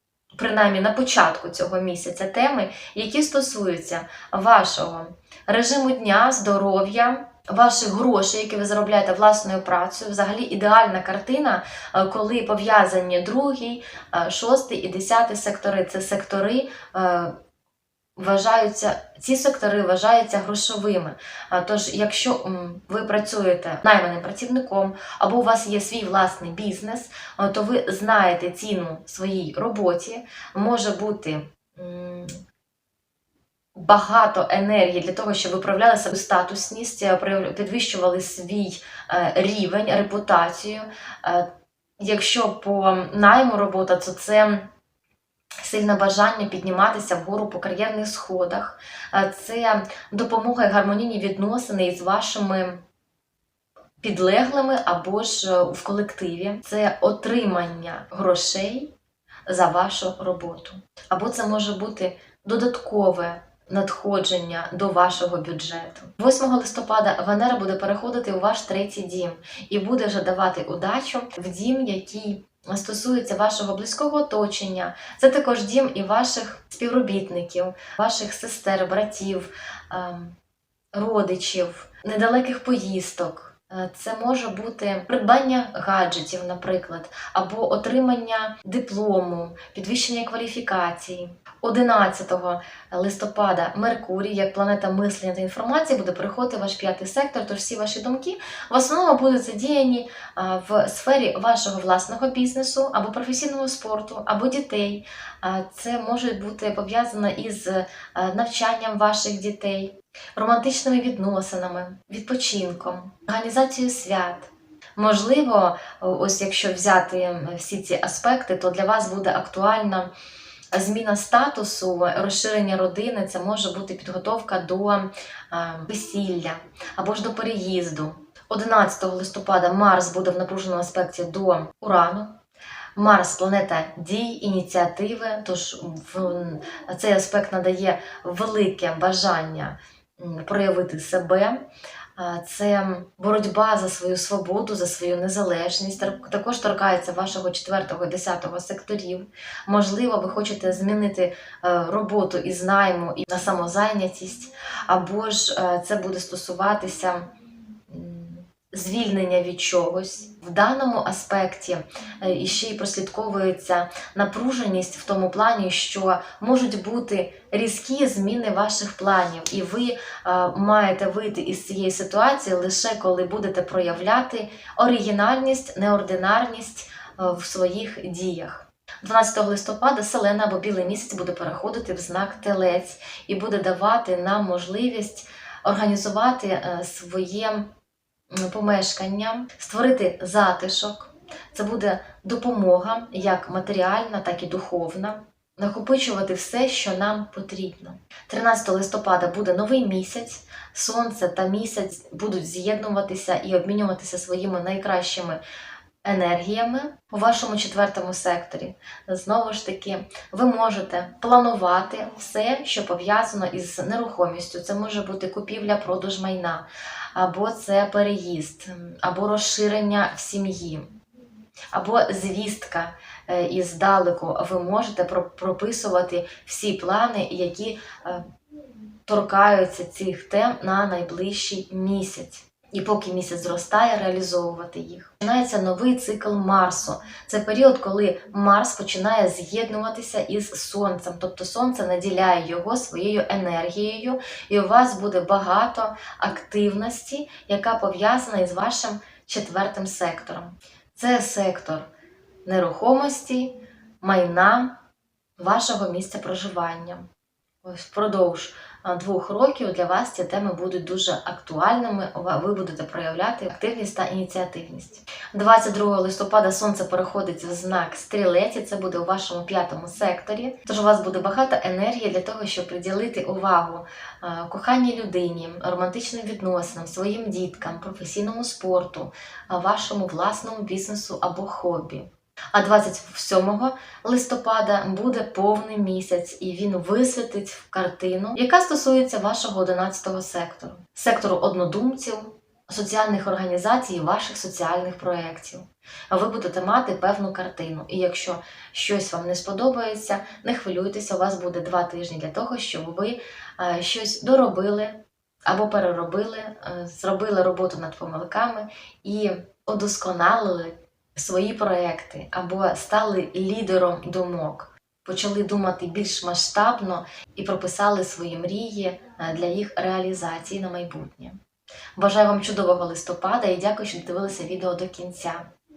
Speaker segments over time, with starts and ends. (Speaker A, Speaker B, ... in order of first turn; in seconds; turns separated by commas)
Speaker A: 0.4-17.4, Speaker A: 18.2-32.4, Speaker A: 33.8-41.5, Speaker A: 42.0-44.7, Speaker A: 45.6-52.8, Speaker A: 54.0-59.0, Speaker A: 59.5-80.3, Speaker A: 80.9-120.1, Speaker A: 120.7-132.4, Speaker A: 133.0-141.7, Speaker A: 142.2-157.3, Speaker A: 157.9-187.7, Speaker A: 188.3-205.4, Speaker A: 206.0-220.9, Speaker A: 221.7-228.3, Speaker A: 229.1-251.9, Speaker A: 252.5-254.8, Speaker A: 255.4-257.1, Speaker A: 257.6-321.4, Speaker A: 322.0-325.5